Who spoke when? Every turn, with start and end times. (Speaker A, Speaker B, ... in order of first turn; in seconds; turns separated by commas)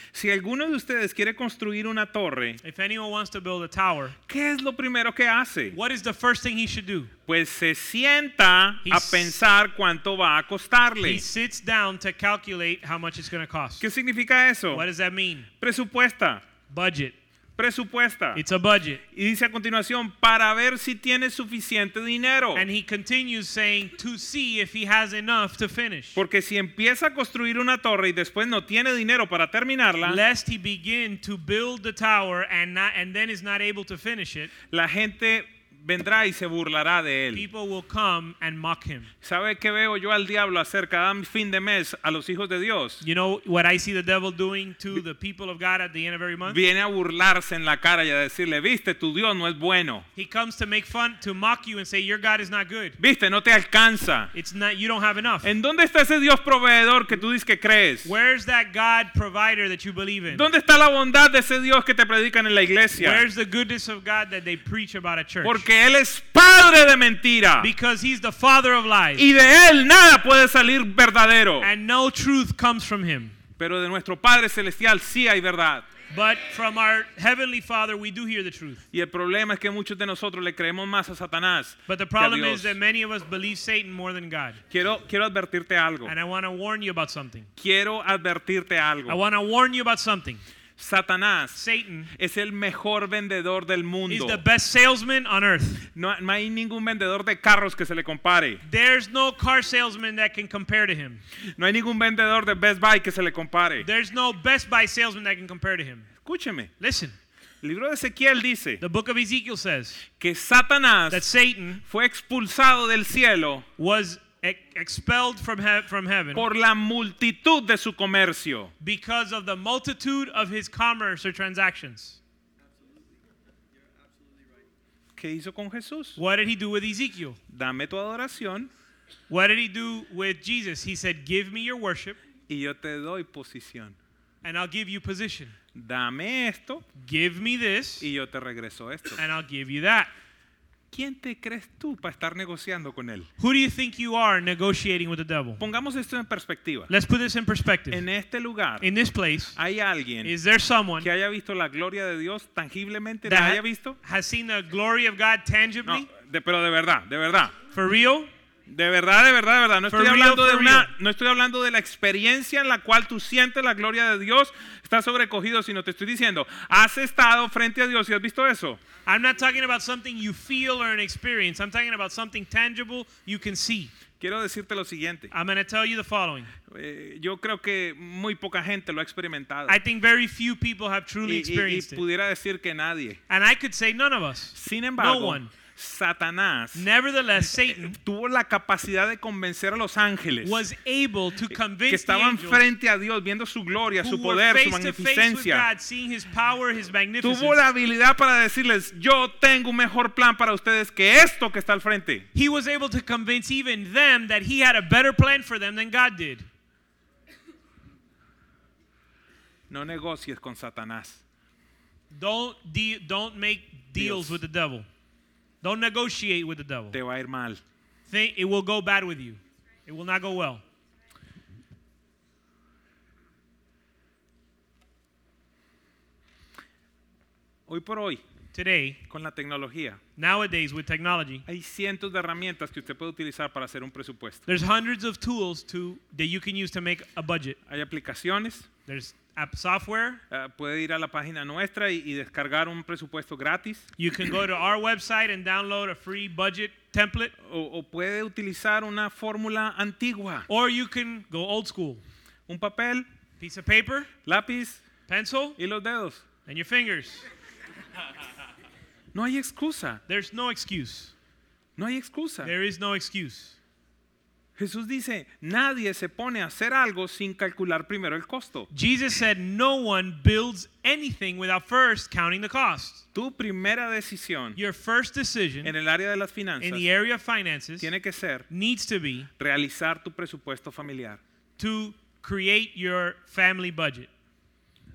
Speaker A: 0.1-2.6, Speaker B: 2.6-4.2, Speaker A: 4.3-5.8, Speaker B: 5.7-7.1, Speaker A: 7.3-11.2, Speaker B: 8.8-9.4, Speaker B: 11.0-13.8, Speaker A: 13.8-14.9, Speaker B: 14.7-15.5, Speaker A: 15.6-16.4, Speaker B: 16.7-17.2, Speaker A: 17.6-18.4, Speaker B: 18.4-19.0, Speaker A: 19.1-22.7, Speaker B: 22.6-26.2, Speaker A: 26.1-30.2, Speaker B: 30.0-34.5, Speaker A: 34.7-37.5, Speaker B: 37.3-39.1, Speaker A: 39.2-43.0, Speaker B: 43.0-46.6, Speaker A: 46.5-50.1, Speaker B: 50.2-53.0, Speaker A: 53.0-54.3, Speaker B: 54.3-55.5, Speaker A: 55.4-58.1, Speaker B: 58.0-60.5, Speaker A: 60.3-63.2, Speaker B: 63.0-65.7, Speaker A: 65.4-67.7, Speaker B: 67.6-69.2, Speaker A: 69.2-71.7, Speaker B: 71.6-73.4, Speaker A: 73.6-75.9, Speaker B: 76.1-78.8, Speaker A: 78.9-82.8, Speaker B: 81.9-84.6, Speaker A: 84.7-86.1, Speaker B: 86.1-87.5, Speaker A: 87.6-89.2, Speaker B: 89.1-90.4, Speaker A: 90.8-91.6, Speaker B: 91.5-92.1, Speaker A: 92.1-94.4, Speaker B: 94.1-95.9, Speaker A: 95.9-98.6, Speaker B: 98.6-101.2, Speaker A: 101.6-103.9, Speaker B: 103.8-106.1, Speaker A: 106.2-106.7, Speaker B: 106.8-107.2, Speaker A: 107.6-108.8, Speaker B: 108.8-110.1, Speaker A: 110.2-111.3, Speaker B: 111.1-111.8, Speaker A: 111.8-113.7, Speaker B: 113.8-116.5, Speaker A: 116.3-118.7, Speaker B: 118.8-122.2, Speaker A: 125.2-126.2, Speaker B: 126.2-127.4, Speaker A: 127.5-128.7, Speaker B: 129.3-132.2, Speaker A: 132.5-134.0, Speaker B: 134.4-135.6, Speaker A: 135.7-136.8, Speaker B: 137.0-138.1, Speaker A: 138.0-139.2, Speaker B: 139.2-140.1, Speaker A: 140.9-143.3, Speaker B: 143.4-145.6, Speaker A: 145.6-146.9, Speaker B: 146.9-148.0, Speaker A: 147.9-148.9, Speaker B: 148.8-149.6, Speaker A: 149.6-150.3, Speaker B: 150.2-151.1, Speaker A: 151.0-154.0, Speaker B: 153.2-156.1, Speaker A: 155.8-157.6, Speaker B: 157.7-158.3, Speaker A: 158.7-168.8, Speaker B: 159.9-160.9, Speaker B: 169.1-173.9, Speaker A: 174.2-175.3, Speaker B: 175.3-176.5, Speaker A: 176.7-179.8, Speaker B: 179.7-182.0, Speaker A: 181.2-183.2, Speaker B: 183.3-185.5, Speaker A: 184.5-186.9, Speaker B: 186.7-188.0, Speaker A: 187.5-190.7, Speaker B: 190.4-192.7, Speaker A: 191.9-195.7, Speaker B: 194.0-197.6, Speaker A: 197.2-202.3, Speaker B: 202.3-206.5, Speaker A: 209.7-211.2, Speaker B: 212.1-214.9, Speaker A: 213.9-214.4, Speaker B: 215.6-217.0, Speaker A: 216.9-217.6, Speaker B: 218.1-220.6, Speaker A: 227.7-228.2, Speaker B: 228.5-229.0, Speaker A: 229.1-230.0, Speaker B: 230.2-231.5, Speaker A: 231.5-234.4, Speaker B: 234.5-237.6, Speaker A: 237.7-238.7, Speaker B: 238.9-240.2, Speaker A: 240.3-243.9, Speaker B: 244.0-247.3, Speaker A: 247.4-250.5, Speaker B: 250.5-252.0, Speaker A: 252.5-253.1, Speaker B: 253.4-254.1, Speaker A: 254.2-254.8, Speaker B: 255.1-255.6, Speaker A: 255.6-256.2, Speaker B: 256.4-257.2, Speaker A: 259.1-260.0, Speaker B: 260.1-261.1, Speaker A: 261.8-262.5, Speaker B: 262.4-263.6, Speaker A: 264.6-268.7, Speaker B: 268.7-273.0, Speaker A: 273.1-274.6, Speaker B: 274.6-275.7, Speaker A: 275.6-276.9, Speaker B: 276.6-277.9, Speaker A: 277.8-278.5, Speaker B: 278.5-279.3, Speaker A: 279.4-281.2, Speaker B: 281.6-284.1